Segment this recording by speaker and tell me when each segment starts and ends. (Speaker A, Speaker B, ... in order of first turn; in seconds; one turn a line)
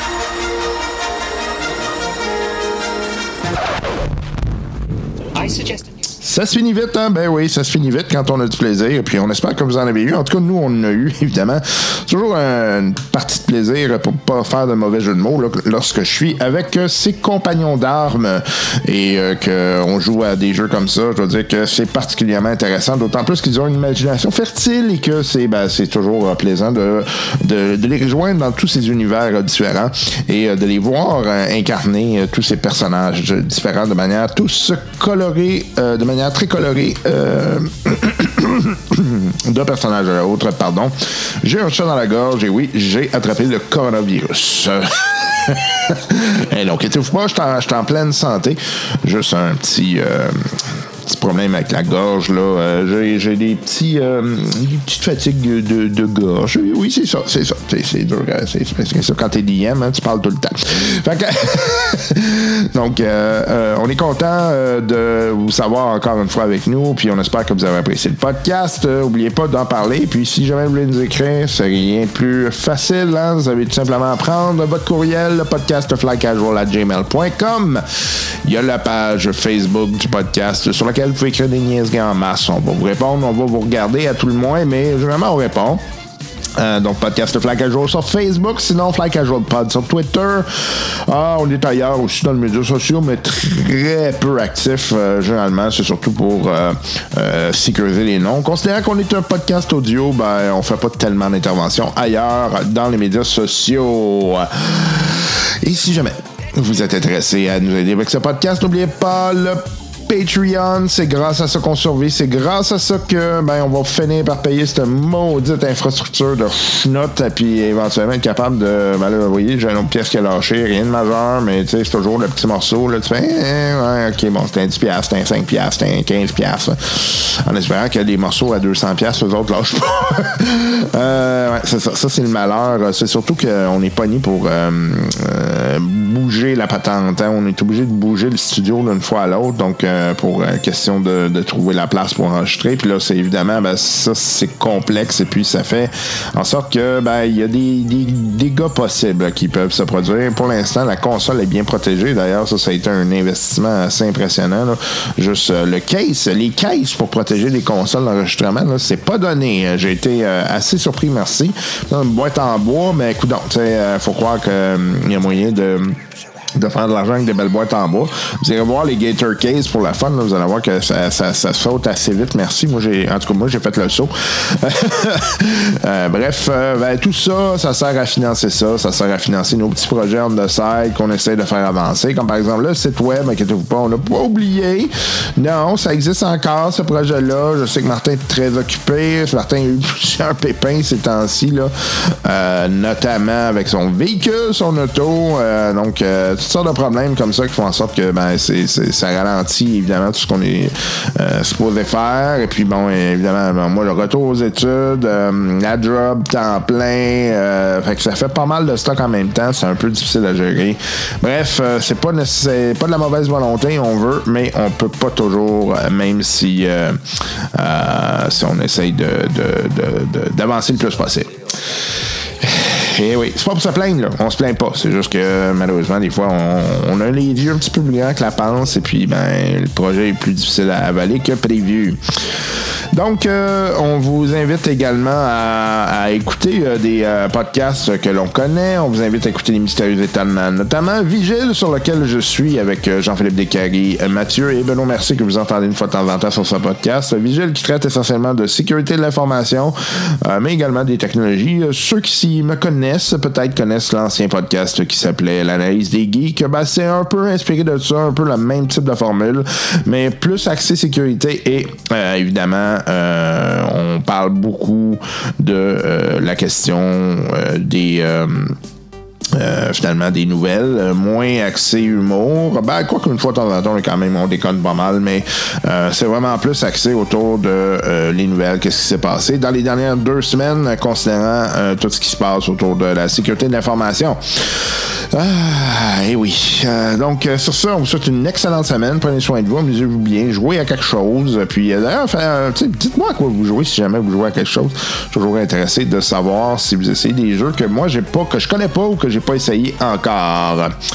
Speaker A: 6.1-85.8
Speaker A: 86.6-166.0
Speaker A: 166.5-221.9
Speaker A: 222.4-268.6
Speaker A: 269.3-300.8